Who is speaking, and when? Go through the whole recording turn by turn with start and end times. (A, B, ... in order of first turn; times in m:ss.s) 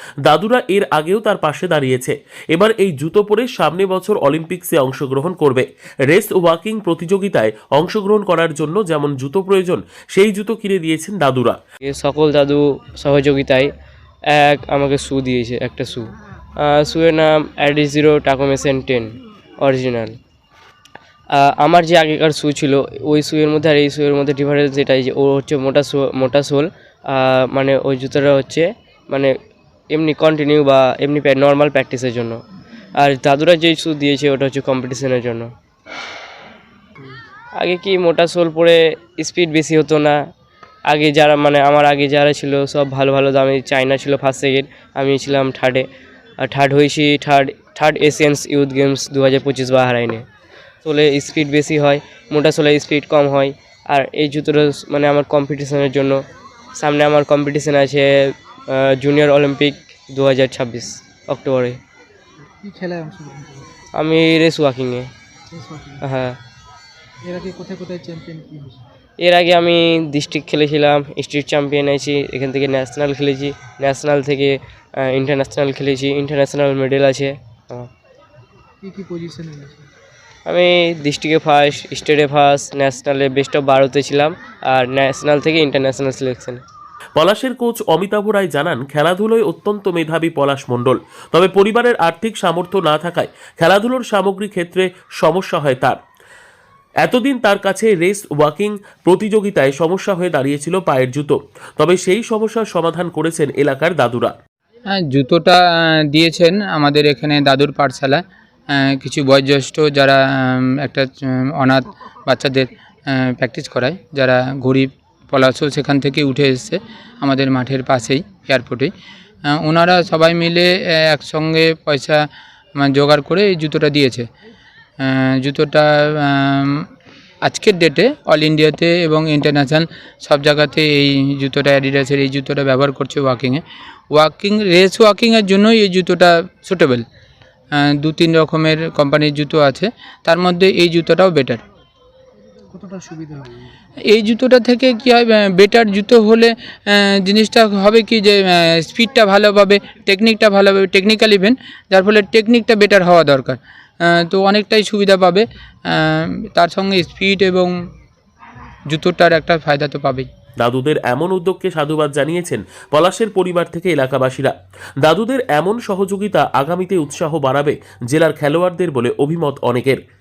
0:00.2-0:11.6 A
0:11.9-0:13.7 B
0:14.3-0:20.2 B
0:21.3-0:29.3 B
0:29.9-0:32.4 B
0:33.0-0:35.5 B
0:37.6-0:40.2 B
0:40.9-0:45.9 B
0:46.4-0:50.2 B
0:50.8-0:56.2 B
0:56.8-1:01.8 B
1:02.6-1:03.7 C
1:04.0-1:05.1 B
1:05.5-1:06.0 C
1:06.0-1:06.4 B
1:07.2-1:08.8 C
1:09.2-1:17.9 B
1:18.8-1:19.9 C
1:20.5-1:26.6 B
1:27.2-1:36.0 A
1:37.0-1:44.4 A
1:44.9-1:58.9 D
1:59.5-2:04.3 D
2:05.0-2:06.8 D
2:07.4-2:17.0 D
2:17.7-2:21.6 D
2:22.7-2:23.7 C
2:24.1-2:37.8 D
2:38.9-2:40.3 D
2:40.6-2:50.0 A